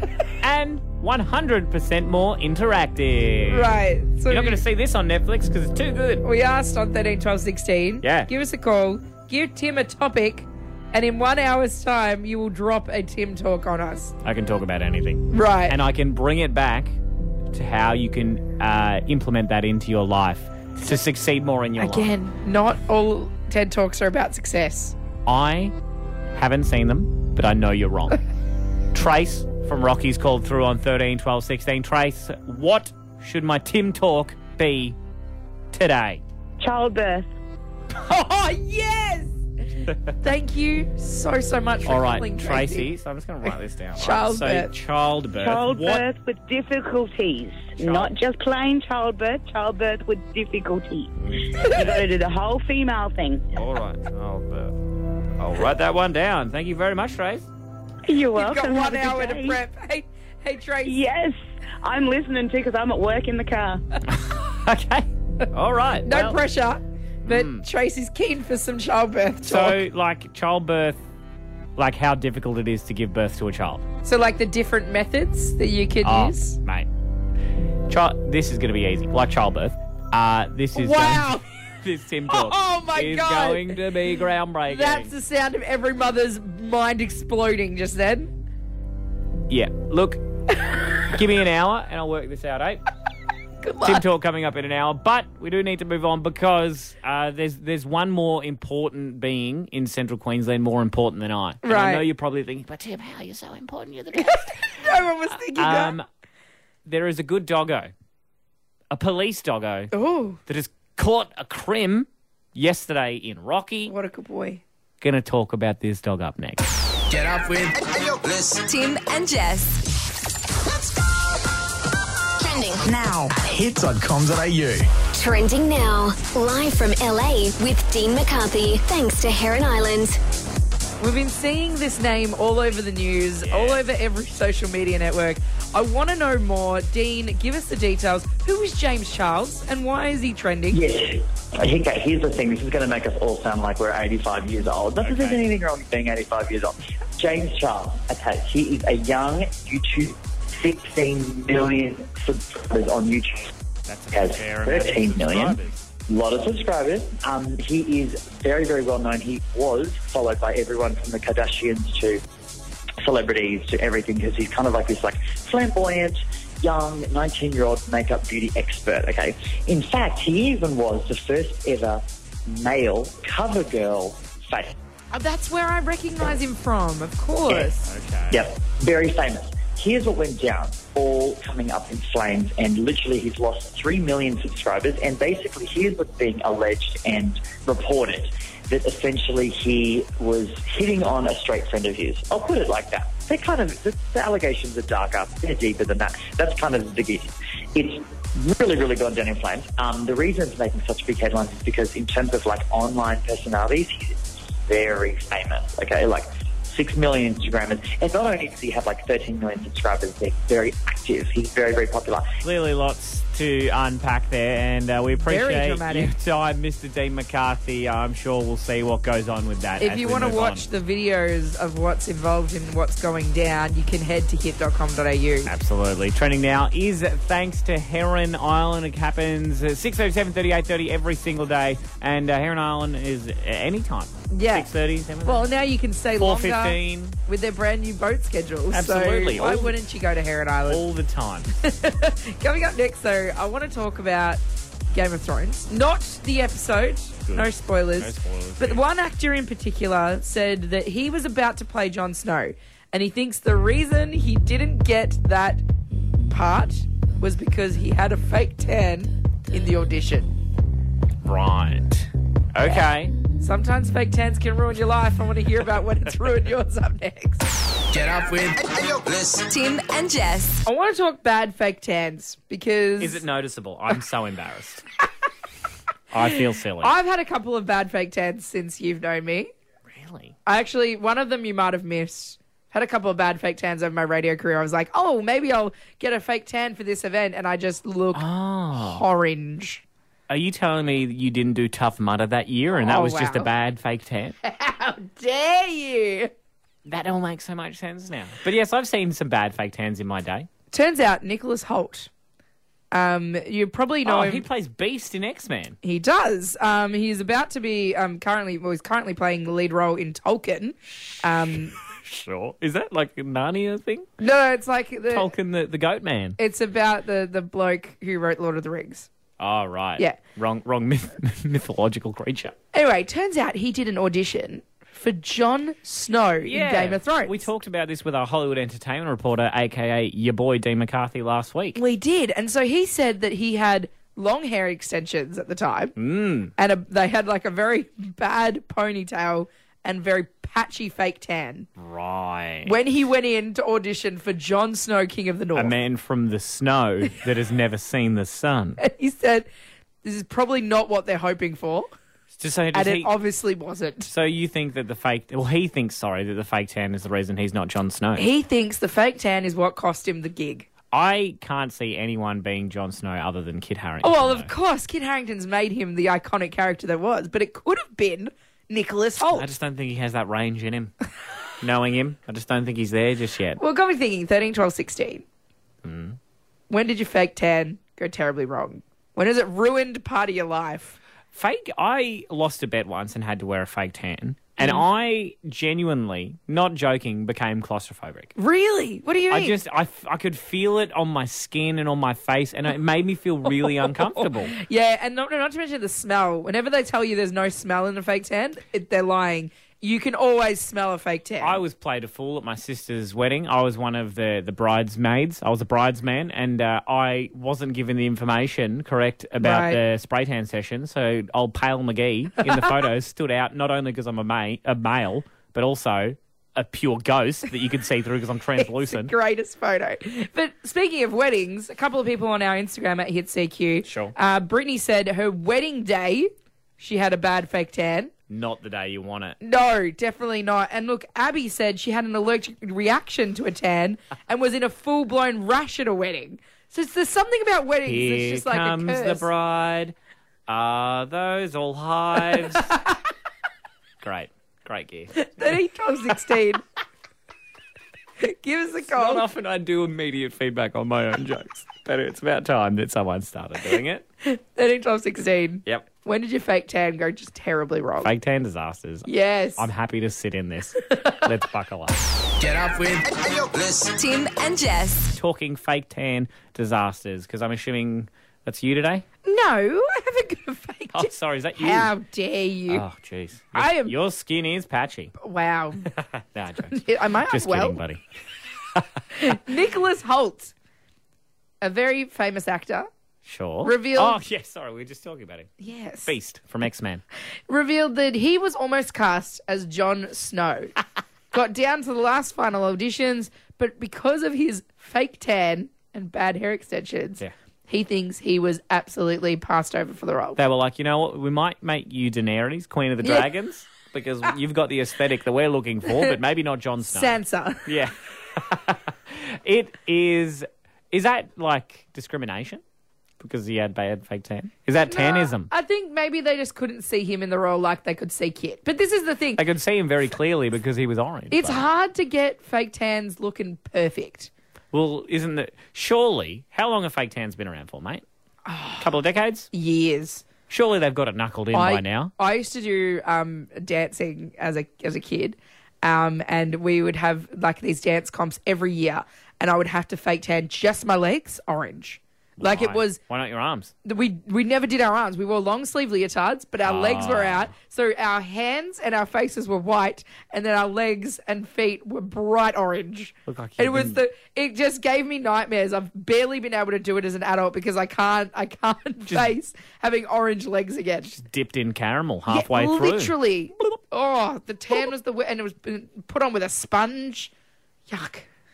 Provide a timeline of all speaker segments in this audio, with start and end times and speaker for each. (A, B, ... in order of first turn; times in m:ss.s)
0:00.3-0:03.7 A
0:03.5-0:04.6 B
0:04.3-0:06.2 A
0:06.2-0:14.2 B
0:08.0-0:08.3 A
0:14.2-0:17.0 A
0:15.3-0:15.8 B
0:17.5-0:22.1 A
0:21.8-0:25.0 B
0:25.3-0:25.8 A
0:26.3-0:28.2 A
0:28.9-0:35.0 A
0:35.7-0:36.2 A
0:36.6-0:37.3 C
0:37.9-0:42.9 B
0:41.8-0:46.0 A
0:44.0-0:44.7 B
0:45.4-0:53.4 C
0:47.8-0:48.1 A
0:51.2-0:52.0 A
0:51.6-0:51.9 B
0:53.5-0:54.7 A
0:55.4-0:57.5 A
0:58.0-0:59.6 C
0:58.3-1:01.0 B
1:00.8-1:03.8 C
1:04.1-1:06.4 A
1:06.0-1:09.9 B
1:07.3-1:07.7 A
1:09.5-1:11.1 A
1:11.8-1:13.8 A
1:14.0-1:16.6 B
1:16.0-1:16.9 A
1:17.9-1:25.2 A
1:20.7-1:21.4 B
1:22.3-1:28.3 B
1:29.5-1:30.2 A
1:31.1-1:32.9 A
1:33.6-1:34.0 B
1:33.8-1:46.1 A
1:41.6-1:42.1 B
1:44.2-1:46.0 B
1:46.8-1:47.9 A
1:48.9-1:49.9 A
1:49.9-1:50.4 B
1:50.5-1:53.9 A
1:53.9-1:54.6 B
1:55.0-1:56.7 A
1:57.1-1:58.2 D
1:58.2-1:59.9 E
2:02.4-2:04.9 D
2:05.2-2:10.2 F
2:11.0-2:20.8 B
2:13.4-2:13.8 A
2:20.7-2:33.5 G
2:25.0-2:25.4 A
2:33.9-2:35.8 A
2:34.1-2:42.2 G
2:43.0-2:54.8 G
2:55.1-2:57.9 B
2:57.5-2:58.4 A
2:58.3-3:32.3 G
3:32.4-3:40.7 A
3:35.2-3:36.1 B
3:39.8-3:45.5 B
3:45.4-3:55.5 A
3:54.3-3:54.7 B
3:55.2-4:00.9 B
3:56.2-3:57.2 A
3:58.7-3:59.8 A
4:00.7-4:01.5 A
4:01.6-4:15.6 B
4:07.3-4:08.8 A
4:16.2-4:20.3 B
4:21.2-4:23.1 A
4:23.4-4:27.5 B
4:27.9-4:29.0 D
4:29.0-4:30.6 E
4:30.7-4:33.2 B
4:33.0-4:34.8 A
4:36.1-4:36.9 A
4:36.8-4:39.5 B
4:39.9-4:40.4 A
4:40.5-4:49.8 B
4:48.1-4:49.0 A
4:50.3-4:54.4 A
4:52.8-4:53.5 B
4:54.4-4:56.3 B
4:56.8-5:00.5 A
5:00.7-5:02.1 B
5:02.9-5:04.5 B
5:04.0-5:05.8 A
5:05.8-5:11.8 B
5:10.9-5:14.1 A
5:14.2-5:15.3 B
5:15.1-5:16.4 A
5:16.4-5:19.1 B
5:19.4-5:22.6 A
5:22.7-5:27.4 B
5:26.4-5:31.8 A
5:31.8-5:35.9 B
5:36.0-5:36.5 A
5:36.6-5:41.7 B
5:41.8-5:42.8 A
5:42.7-5:45.8 B
5:45.6-5:48.8 A
5:48.8-5:49.5 B
5:50.0-5:51.9 B
5:52.4-5:53.1 A
5:52.7-5:54.1 B
5:54.0-5:58.3 A
5:58.2-6:00.7 B
6:00.9-6:04.5 A
6:04.0-6:09.5 B
6:09.2-6:10.9 A
6:11.6-6:13.6 A
6:13.6-6:15.2 B
6:15.8-6:16.2 A
6:16.7-6:21.0 B
6:21.3-6:28.3 A
6:24.6-6:24.8 B
6:28.4-6:29.6 B
6:29.3-6:34.5 A
6:33.5-6:41.6 B
6:41.4-6:59.1 A
6:49.4-6:49.8 B
6:52.4-6:52.7 B
6:58.6-7:08.1 B
7:03.8-7:04.2 A
7:08.3-7:09.4 A
7:09.4-7:19.3 B
7:17.9-7:20.0 A
7:20.5-7:22.8 A
7:24.0-7:25.3 A
7:25.2-7:26.6 B
7:28.2-7:29.3 B
7:28.9-7:34.1 A
7:34.2-7:38.1 B
7:38.0-7:42.0 A
7:39.1-7:39.7 B
7:42.4-7:43.0 D
7:43.4-7:45.2 E
7:45.2-7:49.0 A
7:49.2-7:52.8 B
7:50.9-7:51.9 A
7:52.7-7:55.1 A
7:53.5-7:54.0 B
7:55.2-7:55.9 B
7:55.9-7:58.0 A
7:56.7-7:57.8 B
7:59.2-8:00.5 B
8:01.6-8:02.9 B
8:03.2-8:05.5 A
8:03.6-8:04.2 B
8:05.6-8:06.1 B
8:06.1-8:07.0 A
8:07.5-8:10.7 B
8:11.3-8:20.4 B
8:20.4-8:32.6 A
8:23.0-8:23.3 B
8:25.8-8:26.2 B
8:26.8-8:27.8 B
8:33.2-8:35.5 A
8:34.8-8:39.4 B
8:39.4-8:41.7 A
8:41.3-8:44.3 B
8:44.7-8:48.0 A
8:48.5-8:48.9 B
8:48.8-8:49.5 A
8:49.5-8:50.3 B
8:50.5-8:52.1 A
8:51.5-9:03.0 B
9:02.4-9:03.7 A
9:03.8-9:21.1 B
9:06.6-9:07.5 A
9:13.3-9:14.0 A
9:19.1-9:19.4 A
9:21.1-9:23.2 A
9:22.3-9:27.3 B
9:27.9-9:28.3 B